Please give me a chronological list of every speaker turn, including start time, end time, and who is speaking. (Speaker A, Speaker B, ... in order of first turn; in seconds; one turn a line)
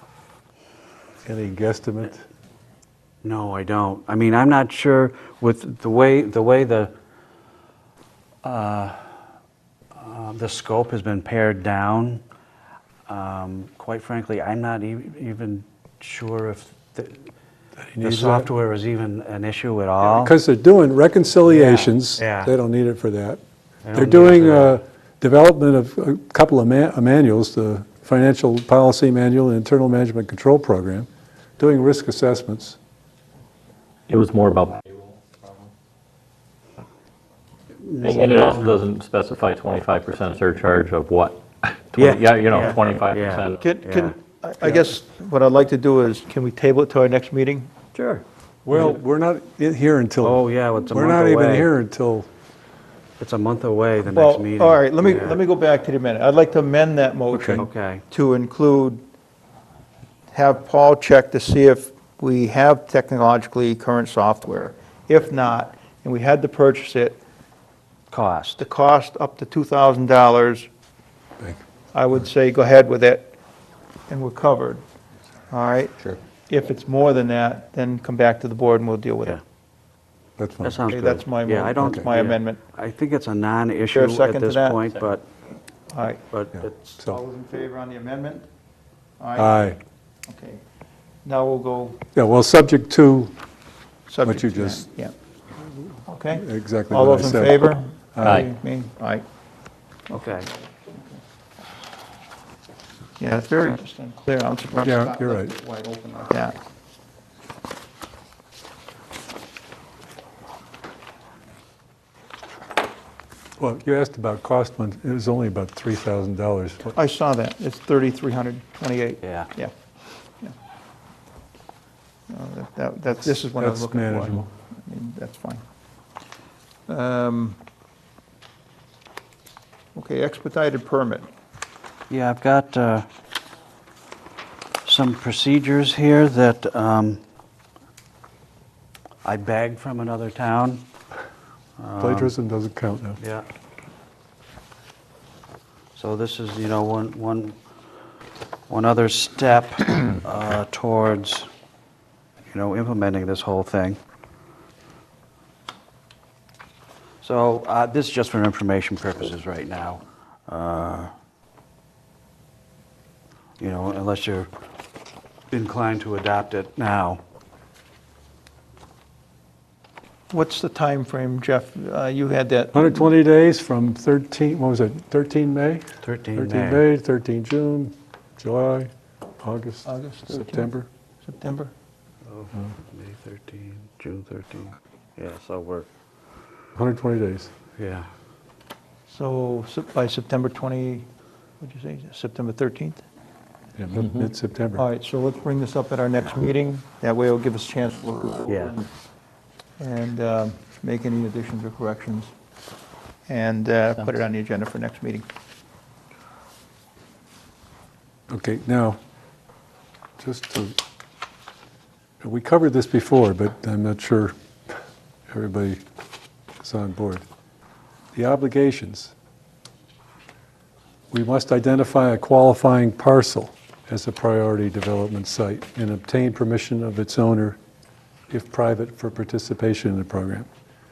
Speaker A: 1.2-2.2
Speaker B: 3.2-6.9
Speaker B: 8.4-9.2
Speaker B: 9.9-12.2
Speaker B: 13.1-17.3
Speaker A: 17.8-18.5
Speaker B: 18.0-20.3
Speaker A: 20.0-23.4
Speaker B: 21.4-22.5
Speaker B: 23.8-24.8
Speaker A: 23.9-31.1
Speaker A: 31.6-32.8
Speaker C: 34.1-35.6
Speaker B: 37.8-38.8
Speaker C: 38.0-43.6
Speaker B: 41.9-44.8
Speaker D: 43.6-47.7
Speaker C: 47.9-48.2
Speaker A: 48.6-52.3
Speaker B: 50.2-51.7
Speaker B: 53.2-55.4
Speaker D: 54.1-59.0
Speaker A: 57.3-57.6
Speaker B: 57.6-58.0
Speaker D: 60.3-67.2
Speaker B: 68.1-68.6
Speaker D: 68.6-70.7
Speaker D: 71.9-73.3
Speaker D: 74.1-74.8
Speaker D: 75.5-79.4
Speaker A: 80.4-81.2
Speaker B: 80.6-85.2
Speaker D: 80.9-82.6
Speaker A: 81.8-82.1
Speaker D: 83.9-84.8
Speaker D: 85.9-86.2
Speaker B: 86.3-87.0
Speaker D: 87.0-88.5
Speaker D: 89.2-89.6
Speaker A: 89.3-89.8
Speaker D: 90.3-90.6
Speaker D: 91.2-92.0
Speaker A: 92.1-93.3
Speaker D: 94.1-95.1
Speaker A: 94.2-94.8
Speaker D: 96.0-99.2
Speaker A: 96.3-97.6
Speaker A: 98.1-98.5
Speaker B: 100.1-100.5
Speaker D: 100.1-101.2
Speaker D: 103.2-106.5
Speaker A: 104.8-105.5
Speaker A: 113.6-116.9
Speaker D: 116.9-119.7
Speaker B: 119.2-119.5
Speaker D: 122.3-125.6
Speaker A: 123.2-124.5
Speaker D: 126.9-127.6
Speaker D: 129.9-131.3
Speaker B: 132.1-133.1
Speaker B: 134.8-137.2
Speaker B: 139.2-140.8
Speaker B: 141.8-142.3
Speaker A: 142.0-143.2
Speaker B: 143.2-143.4
Speaker B: 145.9-147.5
Speaker B: 148.7-151.5
Speaker B: 152.5-154.0
Speaker B: 157.2-161.1
Speaker B: 163.6-164.5
Speaker B: 165.5-167.2
Speaker D: 170.3-173.1
Speaker A: 172.7-178.9
Speaker B: 176.0-176.8
Speaker A: 179.4-180.9
Speaker D: 179.8-180.7
Speaker D: 181.2-181.7
Speaker B: 182.3-185.9
Speaker A: 186.8-187.5
Speaker B: 187.8-188.1
Speaker D: 189.1-191.1
Speaker D: 191.6-193.0
Speaker A: 193.8-194.8
Speaker D: 194.7-198.8
Speaker B: 198.5-198.8
Speaker D: 199.8-202.3
Speaker D: 203.3-205.2
Speaker A: 208.3-209.0
Speaker A: 210.2-210.8
Speaker A: 212.2-214.7
Speaker A: 215.3-215.8
Speaker A: 216.6-217.2
Speaker A: 218.1-219.1
Speaker A: 221.1-227.6
Speaker A: 228.3-230.5